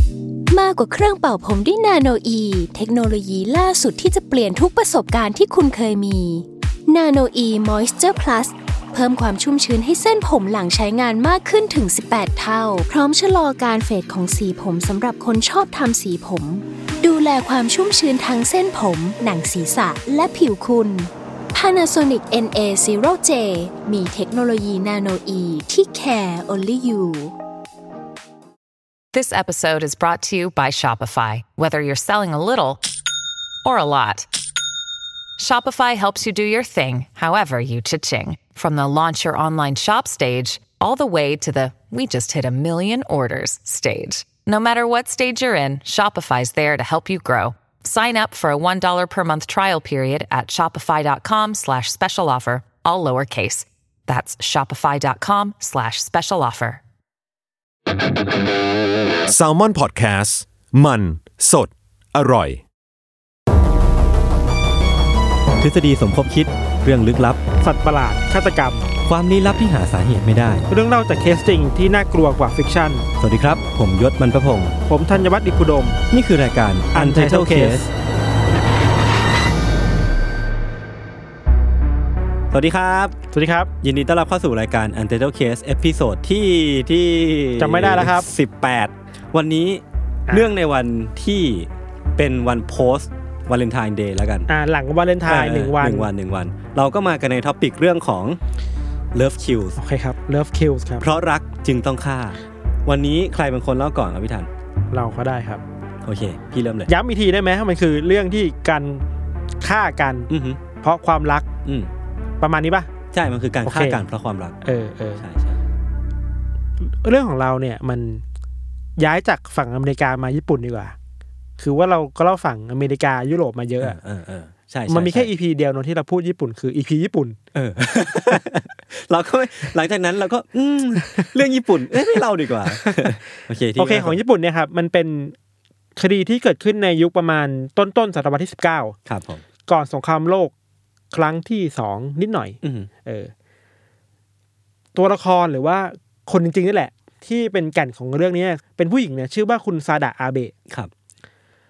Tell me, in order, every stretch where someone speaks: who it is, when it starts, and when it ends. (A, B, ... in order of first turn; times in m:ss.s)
0:00.5-0:27.3 A
0:29.1-0:32.8 B
0:33.6-0:34.3 B
0:35.4-0:56.8 B
0:59.3-1:02.6 C
1:05.6-1:07.4 D
1:07.6-1:08.9 E
1:09.0-1:10.7 D
1:10.7-1:13.0 E
1:13.2-1:14.8 D
1:14.9-1:16.0 E
1:16.1-1:17.9 D
1:16.9-1:17.9 E
1:22.5-1:23.2 D
1:23.3-1:23.7 E
1:23.8-1:34.5 D
1:27.6-1:28.3 E
1:34.5-1:36.1 E
1:35.2-1:38.4 D
1:39.1-1:39.8 D
1:39.8-1:41.1 E
1:41.0-1:44.5 D
1:44.9-1:45.6 E
1:46.0-1:46.9 D
1:46.9-1:49.0 E
1:49.6-1:51.5 E
1:50.3-1:50.6 D
1:51.6-1:51.9 D
1:52.4-1:52.9 E
1:53.1-1:54.6 D
1:53.6-1:54.0 E
1:54.6-1:55.2 E
1:55.2-1:55.6 D
1:56.8-1:58.2 E
1:59.0-2:00.9 E
2:01.6-2:04.0 E
2:03.8-2:05.3 D
2:04.9-2:07.4 E
2:07.5-2:14.2 D
2:12.7-2:13.2 E
2:13.7-2:15.3 E
2:16.0-2:19.0 E
2:19.0-2:19.4 D
2:19.7-2:20.5 E
2:21.1-2:23.3 E
2:22.6-2:22.9 D
2:24.9-2:30.5 E